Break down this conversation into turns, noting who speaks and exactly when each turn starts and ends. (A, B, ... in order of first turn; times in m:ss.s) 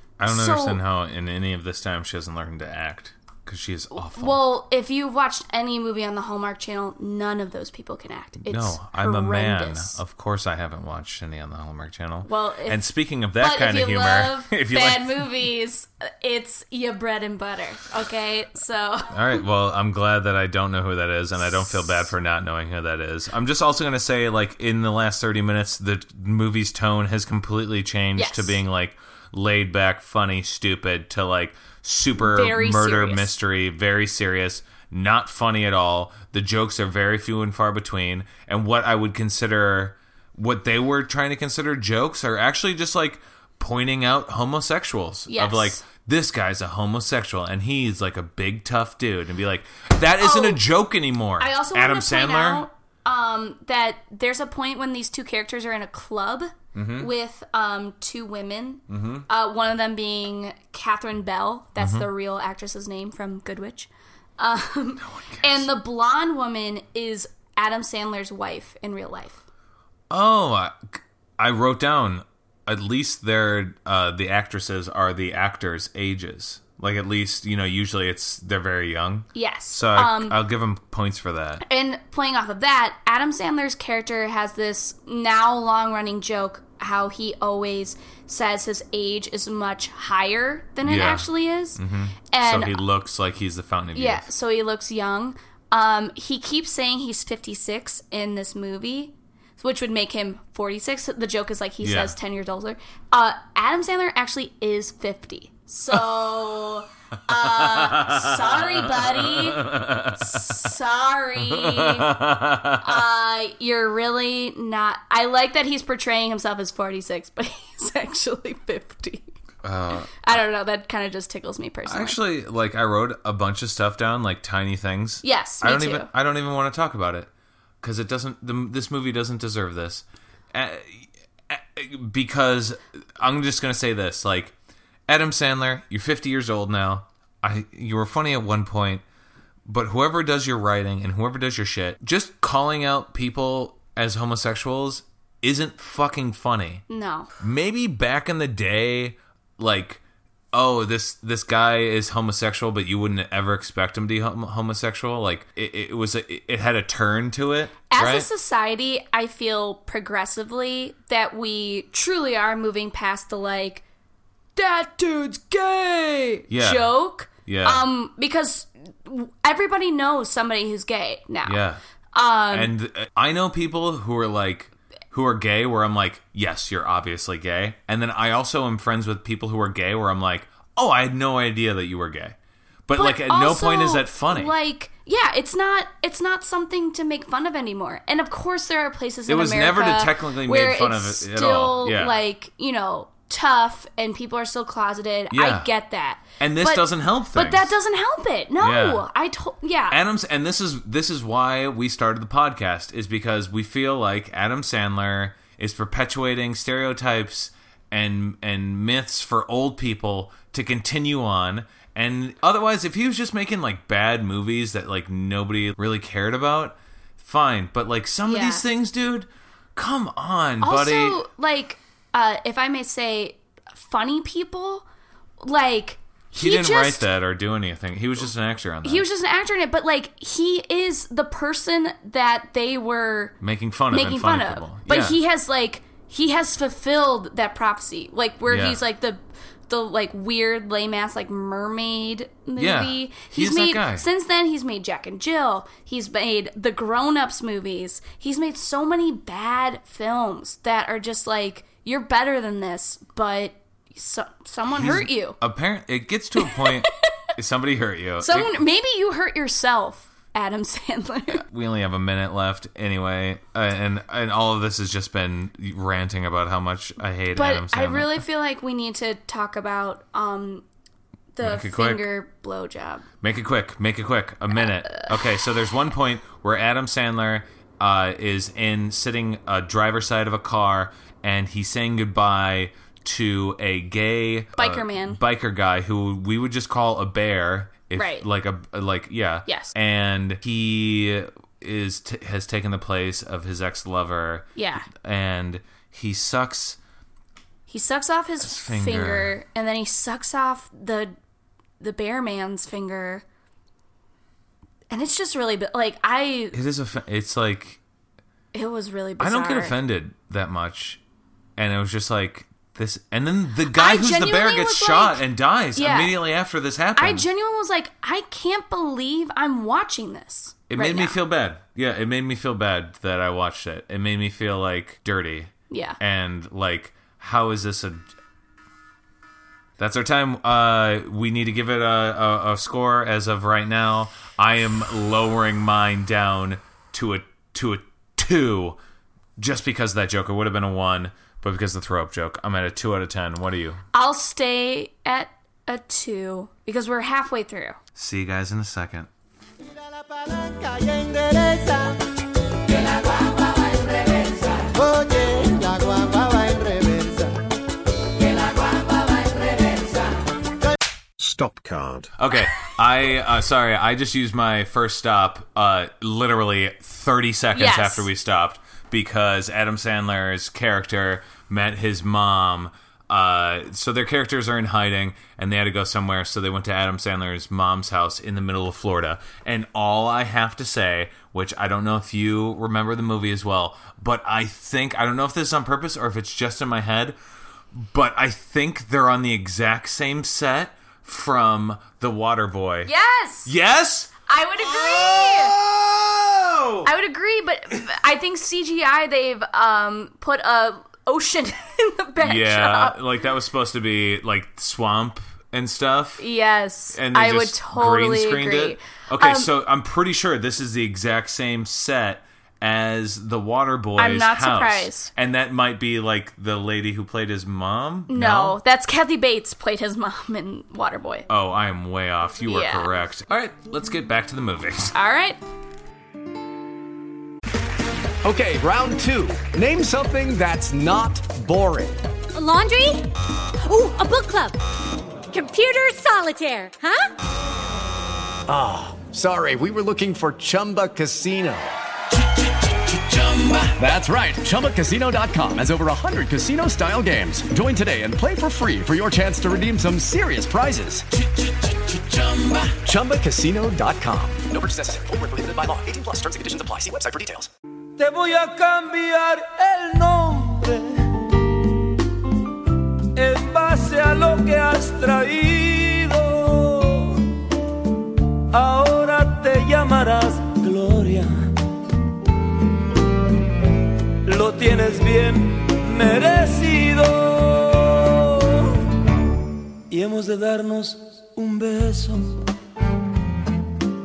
0:00.2-0:04.4 A
0:00.2-0:00.8 B
0:04.0-0:10.0 B
0:08.4-0:15.4 A
0:12.2-0:19.1 B
0:19.1-0:52.6 A
0:28.2-0:28.6 B
0:32.2-0:33.3 B
0:45.3-0:45.8 B
0:50.2-0:50.6 B
0:51.4-1:09.4 B
0:56.7-0:57.1 A
0:58.9-0:59.3 A
1:01.8-1:02.1 A
1:05.0-1:05.7 A
1:10.1-1:21.6 A
1:19.3-1:20.4 B
1:21.6-1:31.8 B
1:30.8-1:34.3 A
1:32.3-1:32.8 B
1:33.9-1:52.2 B
1:41.8-1:42.1 A
1:47.4-1:50.6 A
1:51.4-1:53.0 A
1:52.8-1:59.3 B
1:59.6-2:00.4 A
2:00.2-2:02.2 B
2:01.8-2:07.3 A
2:05.2-2:06.1 B
2:07.8-2:14.5 A
2:15.1-2:19.0 A
2:19.6-2:26.8 A
2:26.9-2:27.3 B
2:27.4-2:30.0 A
2:30.5-2:38.3 A
2:37.9-2:43.8 B
2:44.6-2:51.6 B
2:46.5-2:47.8 A
2:51.4-2:51.8 A
2:52.1-2:52.7 B
2:52.5-3:02.4 A
3:02.9-3:04.5 A
3:02.9-3:20.0 B
3:09.3-3:12.2 A
3:15.3-3:15.7 A
3:16.4-3:17.7 A
3:18.6-3:19.1 A
3:19.9-3:41.2 A
3:38.2-3:38.6 B
3:40.6-3:44.8 B
3:45.4-3:47.0 B
3:46.3-3:49.0 A
3:48.8-3:53.3 B
3:53.4-3:55.2 A
3:53.9-4:15.4 B
3:58.5-3:58.8 A
4:02.6-4:04.1 A
4:14.7-4:18.5 A
4:16.4-4:16.8 B
4:18.2-4:21.4 B
4:21.3-4:28.2 A
4:27.3-4:30.6 B
4:31.3-4:33.0 B
4:31.4-4:32.1 A
4:33.2-4:56.8 A
4:44.6-4:45.2 B
4:47.9-4:48.2 B
4:49.4-4:49.7 B
4:54.6-4:54.9 B
4:57.7-5:01.1 B
4:58.4-4:59.4 A
5:01.8-5:03.2 B
5:04.9-5:06.6 B
5:06.5-5:07.8 A
5:08.5-5:09.8 B
5:09.2-5:11.0 A
5:11.6-5:17.3 A
5:13.7-5:16.2 B
5:17.0-5:21.2 B
5:20.7-5:28.1 A
5:25.7-5:26.0 B
5:29.8-5:38.8 A
5:39.4-5:43.8 A
5:43.9-5:47.8 B
5:47.9-5:49.1 A
5:50.3-5:51.8 C
5:54.8-5:57.2 C
6:02.2-6:27.2 A
6:07.5-6:08.1 B
6:27.7-6:32.9 A
6:32.8-6:33.5 B
6:33.4-6:36.9 A
6:34.3-6:35.6 B
6:36.8-6:43.0 B
6:42.2-6:46.2 A
6:46.2-6:49.5 B
6:46.9-6:58.6 A
6:54.0-6:55.1 B
6:58.1-7:01.3 B
7:01.3-7:04.9 A
7:02.5-7:02.9 B
7:04.9-7:05.4 B
7:08.2-7:12.0 D
7:12.3-7:13.1 E
7:13.6-7:14.6 E
7:15.3-7:17.1 E
7:18.5-7:21.7 D
7:22.9-7:31.0 D
7:31.9-7:37.5 D
7:38.0-7:41.0 F
7:43.2-7:47.2 F
7:48.5-7:51.4 F
7:54.2-7:58.8 F
7:59.9-8:02.3 F